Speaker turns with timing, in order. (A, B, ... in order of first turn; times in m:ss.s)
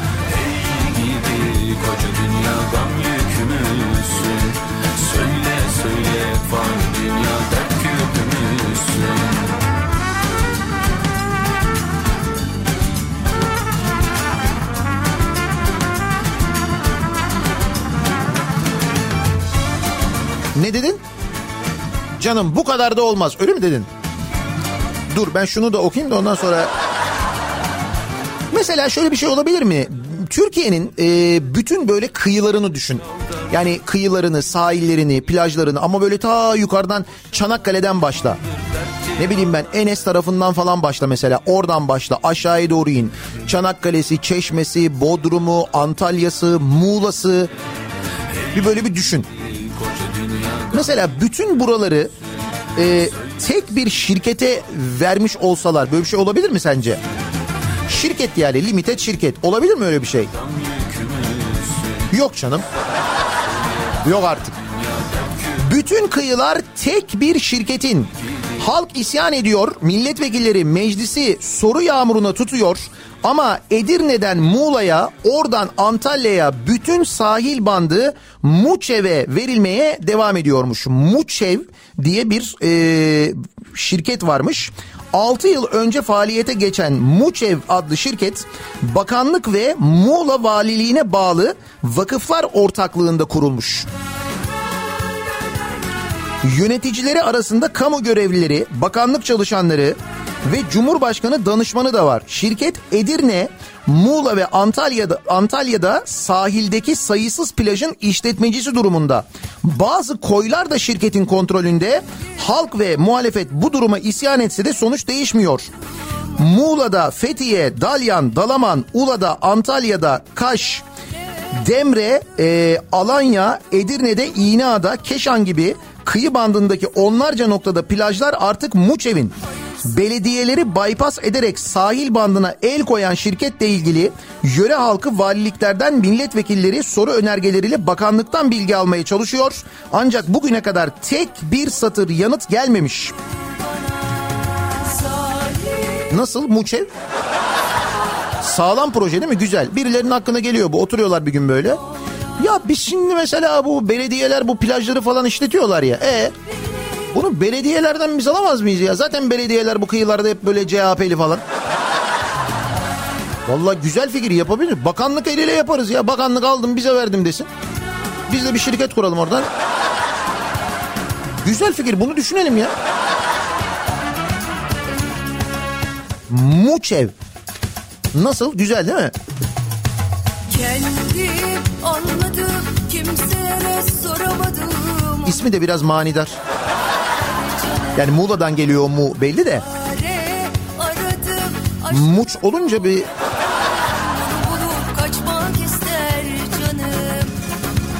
0:00.4-0:09.4 A
0:20.5-0:21.0 B
0:22.2-0:23.9 B
0:25.1-0:26.7 B
0:28.5-0:38.4 B
0:39.2-0:47.5 B
0:48.5-0:49.3 B
0:49.6-0:50.7 A
0:50.7-0:52.1 B
0:52.8-0:57.0 B
0:57.9-1:00.3 B
1:00.4-1:01.9 A
1:02.1-1:02.6 B
1:04.0-1:04.6 B
1:05.6-1:33.9 B
1:36.4-1:55.7 B
1:56.4-2:00.8 B
2:01.6-2:23.1 B
2:26.1-2:26.9 B
2:28.4-2:31.8 B
2:32.4-2:36.3 B
2:37.1-2:41.4 B
2:43.5-2:47.5 B
2:48.3-2:49.5 B
2:51.4-2:52.7 B
2:56.3-2:57.1 B
2:58.1-2:59.1 B
3:00.5-3:05.4 C
3:05.2-3:06.3 B
3:07.3-3:07.9 C
3:07.9-3:09.6 B
3:09.7-3:11.9 C
3:11.9-3:13.1 B
3:13.8-3:17.3 C